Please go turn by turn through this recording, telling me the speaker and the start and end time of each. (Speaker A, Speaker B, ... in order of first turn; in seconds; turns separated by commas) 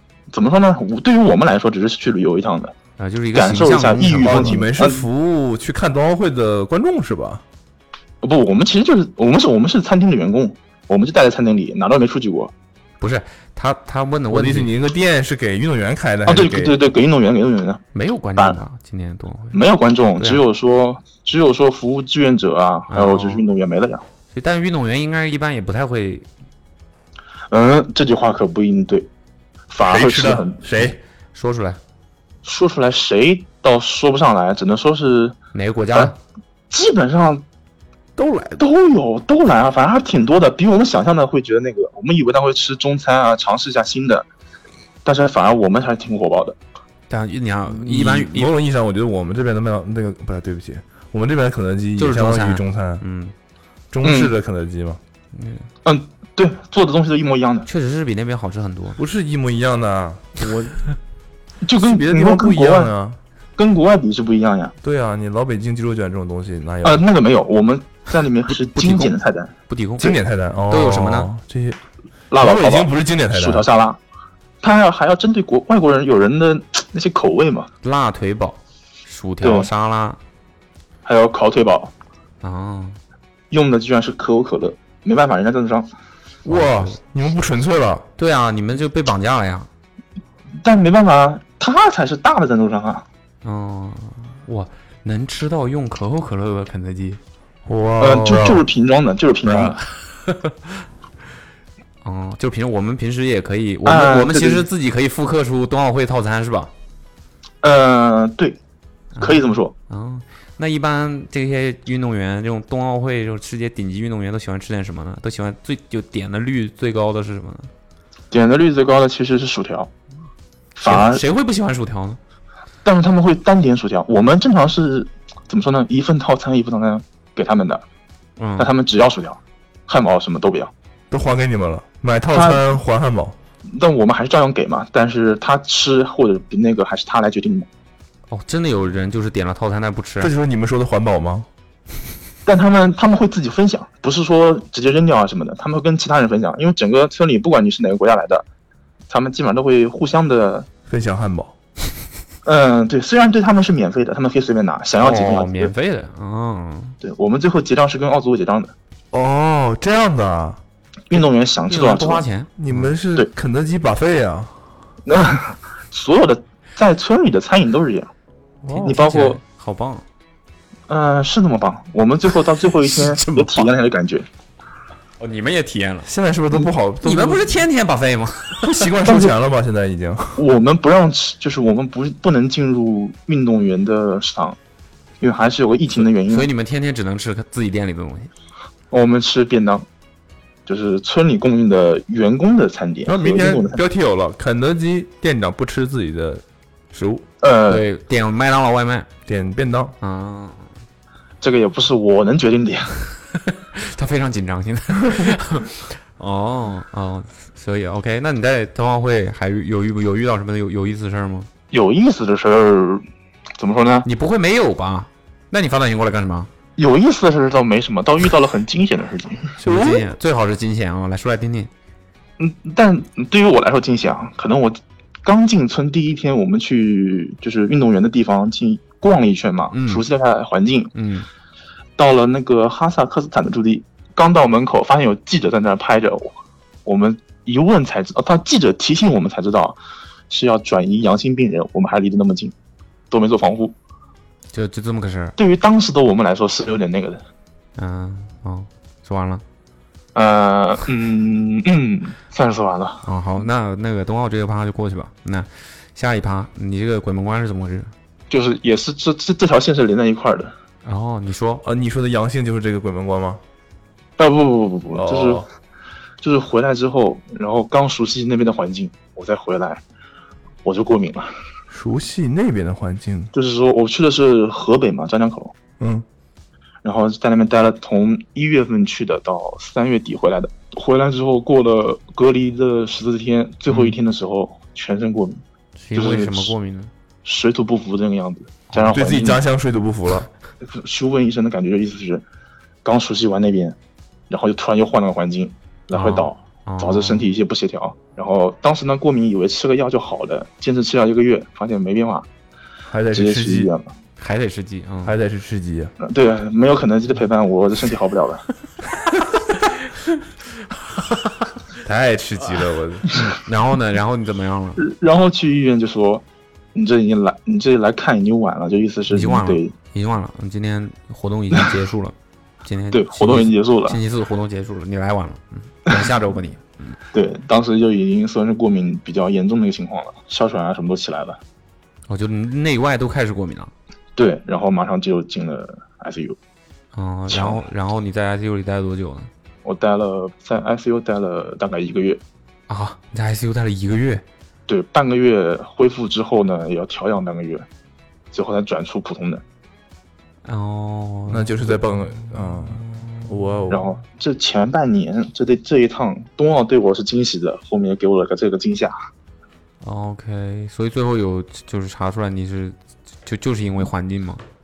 Speaker A: 0.3-2.7, Speaker B: 3.0-4.6, Speaker A: 3.3-5.0, Speaker C: 4.1-7.4, Speaker A: 8.2-12.5, Speaker B: 13.0-14.7, Speaker C: 14.3-16.8, Speaker A: 16.2-17.8, Speaker B: 17.9-19.6, Speaker A: 19.5-24.0, Speaker B: 20.2-20.4, Speaker B: 22.9-23.4, Speaker B: 24.3-26.2, Speaker A: 27.5-29.1, Speaker A: 29.7-30.6, Speaker C: 29.8-31.0, Speaker B: 31.3-31.8, Speaker A: 32.4-35.3, Speaker B: 35.5-36.1, Speaker A: 36.7-37.4, Speaker C: 38.2-38.6, Speaker A: 38.6-44.3, Speaker A: 45.0-46.5, Speaker B: 47.1-48.5, Speaker C: 47.7-53.0, Speaker B: 52.0-53.3, Speaker C: 53.9-55.0, Speaker A: 54.0-54.3, Speaker B: 55.3-55.7, Speaker A: 55.8-57.7, Speaker B: 57.6-59.0, Speaker C: 59.0-60.8, Speaker A: 61.6-62.9, Speaker C: 61.8-63.2, Speaker A: 63.6-64.7, Speaker C: 64.8-67.0, Speaker A: 66.8-70.2, Speaker B: 68.5-69.1, Speaker B: 69.7-70.1, Speaker C: 70.0-71.8, Speaker B: 70.7-71.3, Speaker A: 72.3-74.0, Speaker C: 72.3-73.7, Speaker A: 74.6-77.7, Speaker B: 77.8-80.2, Speaker A: 79.4-79.7, Speaker A: 81.0-81.9, Speaker B: 82.4-83.0, Speaker A: 83.5-85.9, Speaker C: 86.4-88.0, Speaker B: 86.5-87.0, Speaker B: 88.2-89.7, Speaker A: 90.6-93.0, Speaker B: 93.4-97.2, Speaker C: 97.7-98.6, Speaker A: 98.0-99.8, Speaker B: 99.4-100.7, Speaker B: 102.0-106.7, Speaker A: 103.8-104.7, Speaker A: 107.6-108.6, Speaker B: 109.2-117.7, Speaker A: 109.2-109.7, Speaker A: 118.3-119.9, Speaker A: 120.8-121.2, Speaker B: 120.8-122.2, Speaker A: 122.8-127.8, Speaker B: 128.4-128.7, Speaker A: 128.6-130.7, Speaker C: 131.1-133.3, Speaker A: 132.3-132.6, Speaker A: 133.7-137.7, Speaker B: 138.3-140.3, Speaker C: 140.2-141.5, Speaker A: 142.4-148.4, Speaker A: 149.1-150.7, Speaker C: 150.9-151.5, Speaker A: 152.4-155.7, Speaker B: 155.0-157.0, Speaker A: 157.0-158.7, Speaker C: 159.1-160.6, Speaker A: 161.1-162.2, Speaker B: 161.7-162.9, Speaker C: 162.6-164.7, Speaker A: 165.1-168.1, Speaker C: 168.6-168.9, Speaker B: 168.7-170.0, Speaker A: 168.8-169.4, Speaker A: 170.9-174.2, Speaker B: 172.8-173.7, Speaker B: 175.2-176.1, Speaker C: 176.0-177.6, Speaker B: 177.0-178.9, Speaker C: 178.6-180.4, Speaker A: 179.0-179.3, Speaker A: 180.4-184.6, Speaker A: 185.2-186.5, Speaker B: 185.9-188.3, Speaker A: 188.9-189.8, Speaker A: 190.7-193.8, Speaker C: 193.1-197.2, Speaker A: 197.4-197.8, Speaker B: 197.7-199.1, Speaker C: 199.3-199.9, Speaker B: 200.0-200.7, Speaker A: 201.4-202.9, Speaker B: 203.5-211.5, Speaker A: 211.7-213.0, Speaker A: 213.6-214.1, Speaker B: 214.0-216.5, Speaker A: 216.8-219.5, Speaker C: 219.6-220.1, Speaker B: 219.6-221.7, Speaker A: 222.4-230.9, Speaker B: 229.7-230.0, Speaker B: 230.9-231.3, Speaker A: 232.0-236.3, Speaker A: 236.8-239.8, Speaker A: 240.3-242.5, Speaker A: 243.1-243.7, Speaker B: 244.5-245.3, Speaker A: 245.4-247.2, Speaker B: 247.8-249.4, Speaker A: 250.1-253.0, Speaker B: 253.0-257.9, Speaker A: 258.3-260.5, Speaker B: 260.8-261.6, Speaker C: 261.6-263.4, Speaker A: 264.2-265.4, Speaker C: 264.9-265.5, Speaker A: 266.2-269.8, Speaker A: 270.6-271.3, Speaker C: 271.7-273.3, Speaker A: 273.3-275.5, Speaker C: 275.8-276.0, Speaker A: 276.8-285.4, Speaker B: 283.7-283.9, Speaker B: 285.8-286.9, Speaker A: 285.9-286.5, Speaker A: 287.2-289.4, Speaker C: 288.9-290.3, Speaker A: 290.6-292.2, Speaker A: 292.8-293.8, Speaker A: 294.3-302.3, Speaker B: 295.9-297.3, Speaker C: 302.9-303.7, Speaker A: 303.1-303.9, Speaker B: 304.2-305.1, Speaker C: 305.0-305.9, Speaker A: 306.0-308.4, Speaker C: 311.8-313.1, Speaker B: 313.1-314.8, Speaker A: 314.8-319.7, Speaker B: 319.1-322.1, Speaker B: 322.6-327.0, Speaker A: 322.9-324.0, Speaker A: 327.1-331.4, Speaker B: 332.1-333.7, Speaker A: 334.1-336.4, Speaker B: 336.9-339.3, Speaker A: 337.3-337.6, Speaker A: 339.6-342.2, Speaker B: 342.7-344.2, Speaker A: 344.7-347.6, Speaker A: 348.3-349.4, Speaker B: 350.4-351.8, Speaker C: 351.3-354.0, Speaker A: 353.7-358.9, Speaker B: 359.8-364.4